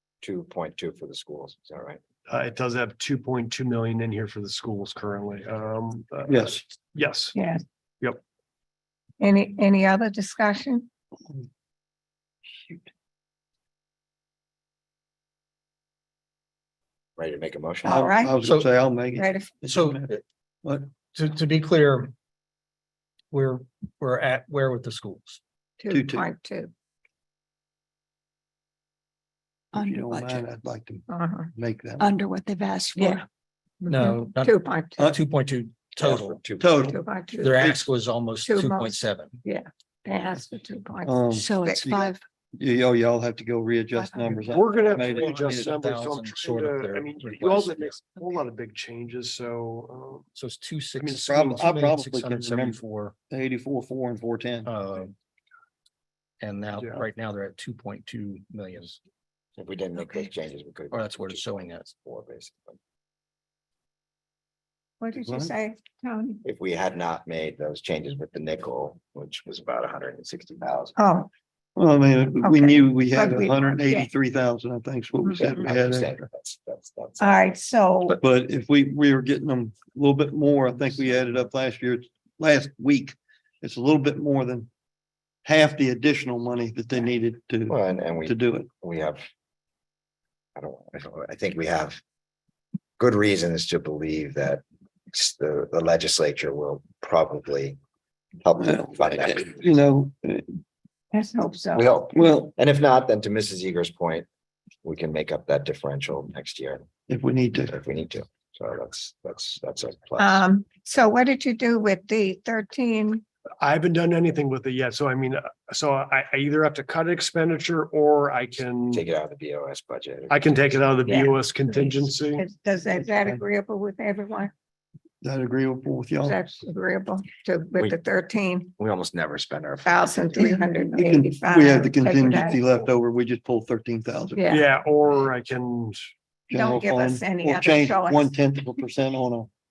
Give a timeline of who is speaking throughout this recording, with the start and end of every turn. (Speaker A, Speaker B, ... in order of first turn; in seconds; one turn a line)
Speaker A: 0.2-2.0
Speaker B: 2.3-7.3
Speaker C: 6.3-6.6
Speaker D: 7.3-7.6
Speaker D: 9.2-10.9
Speaker A: 17.1-18.0
Speaker D: 17.8-18.4
Speaker C: 17.9-20.1
Speaker E: 18.4-18.7
Speaker D: 19.1-19.5
Speaker E: 19.6-20.2
Speaker E: 21.1-22.1
Speaker E: 23.3-25.4
Speaker D: 25.8-26.7
Speaker C: 25.9-26.3
Speaker F: 29.7-30.4
Speaker C: 29.7-32.1
Speaker D: 31.1-31.5
Speaker F: 32.0-33.2
Speaker D: 33.0-33.2
Speaker D: 33.8-35.0
Speaker E: 33.9-36.4
Speaker A: 36.0-36.9
Speaker C: 36.6-37.8
Speaker D: 36.8-37.6
Speaker E: 37.4-39.4
Speaker D: 38.4-41.9
Speaker C: 41.0-45.7
Speaker F: 41.3-42.2
Speaker F: 43.9-44.5
Speaker B: 44.5-50.3
Speaker E: 45.0-48.0
Speaker E: 50.3-53.1
Speaker B: 51.0-51.6
Speaker C: 51.2-54.7
Speaker E: 54.6-55.1
Speaker E: 56.4-59.0
Speaker A: 59.5-62.8
Speaker E: 60.9-61.9
Speaker D: 65.0-66.4
Speaker C: 65.2-65.5
Speaker A: 66.4-71.0
Speaker D: 71.0-71.3
Speaker C: 71.8-76.2
Speaker D: 72.4-74.1
Speaker A: 75.4-77.5
Speaker D: 77.2-78.2
Speaker C: 78.2-84.7
Speaker C: 85.4-88.7
Speaker A: 87.7-89.2
Speaker A: 90.5-92.0
Speaker A: 93.0-97.8
Speaker A: 98.4-99.6
Speaker C: 98.6-100.6
Speaker D: 101.1-102.2
Speaker A: 101.7-104.3
Speaker C: 102.2-102.5
Speaker A: 104.8-106.9
Speaker C: 107.1-107.7
Speaker A: 107.7-110.4
Speaker D: 110.2-113.2
Speaker B: 113.6-119.0
Speaker A: 118.9-120.4
Speaker B: 120.3-122.4
Speaker D: 121.0-124.5
Speaker C: 125.2-126.4
Speaker D: 126.2-128.7
Speaker A: 128.8-130.4
Speaker D: 129.8-132.6
Speaker C: 130.9-134.5
Speaker D: 134.3-134.6
Speaker B: 134.5-136.0
Speaker C: 136.5-139.5
Speaker D: 136.5-138.3